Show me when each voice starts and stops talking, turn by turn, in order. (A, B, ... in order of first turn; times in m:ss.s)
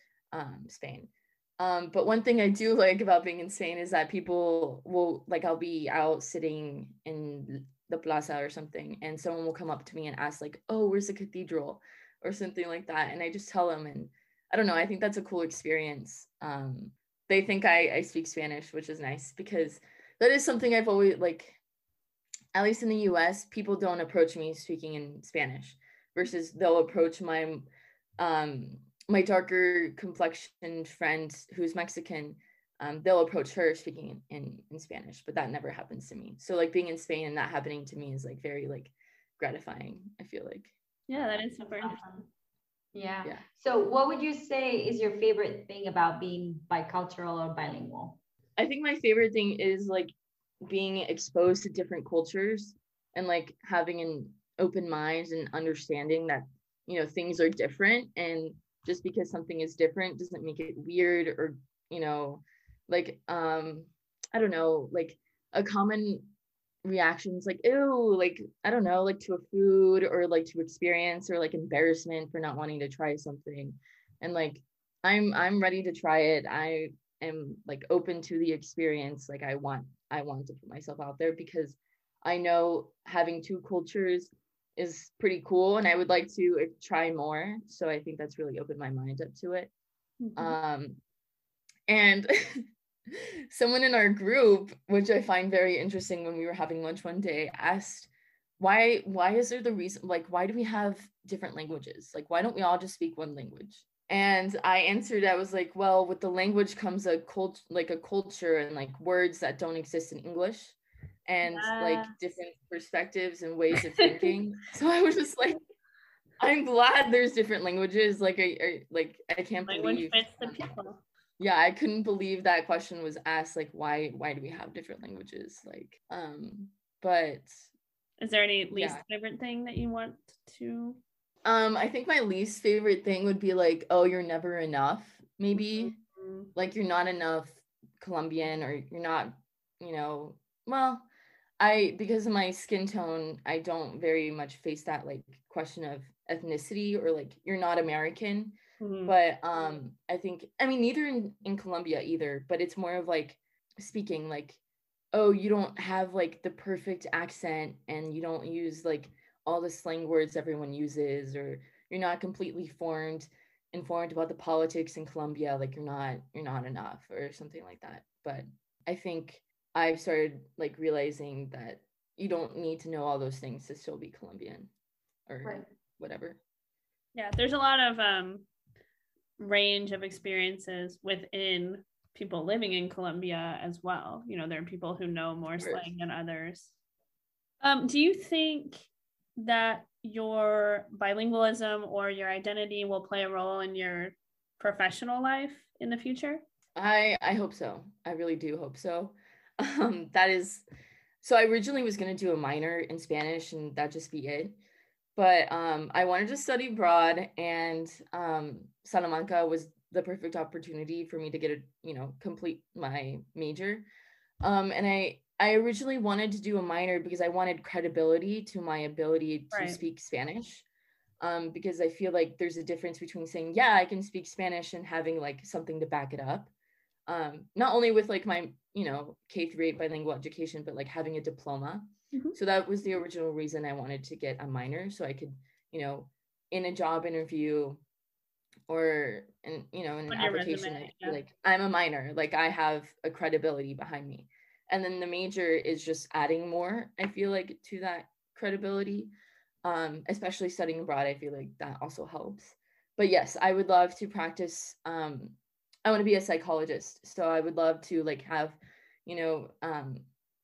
0:00.3-0:21.6 A
0:22.5-0:27.7 A
0:28.2-0:40.7 A
0:41.1-0:42.0 B
0:41.6-0:42.2 C
0:42.9-0:48.2 C
0:48.6-0:50.1 A
0:50.6-1:06.3 A
1:06.8-1:29.7 A
1:30.2-1:30.6 B
1:30.4-1:31.0 A
1:31.9-1:55.6 A
1:51.4-1:52.1 B
1:54.0-1:54.3 B
1:56.4-2:00.7 A
1:59.7-2:01.0 B
2:01.4-2:07.6 A
2:08.2-2:11.0 B
2:08.7-2:09.0 A
2:11.4-2:15.9 A
2:15.5-2:16.5 B
2:16.6-2:21.0 A
2:21.6-2:34.6 A
2:28.8-2:29.1 B
2:35.1-2:54.7 A
2:55.3-2:56.4 A
2:57.1-2:58.4 B
2:59.4-3:06.7 B
3:05.6-3:05.9 A
3:07.6-3:16.4 B
3:16.8-3:20.6 A
3:21.2-3:24.6 A
3:25.2-3:33.8 A
3:34.4-3:40.6 A
3:39.5-3:39.8 B
3:41.2-3:46.5 A
3:47.1-3:57.8 A
3:58.7-4:09.1 A
4:00.1-4:01.2 B
4:09.6-4:20.1 A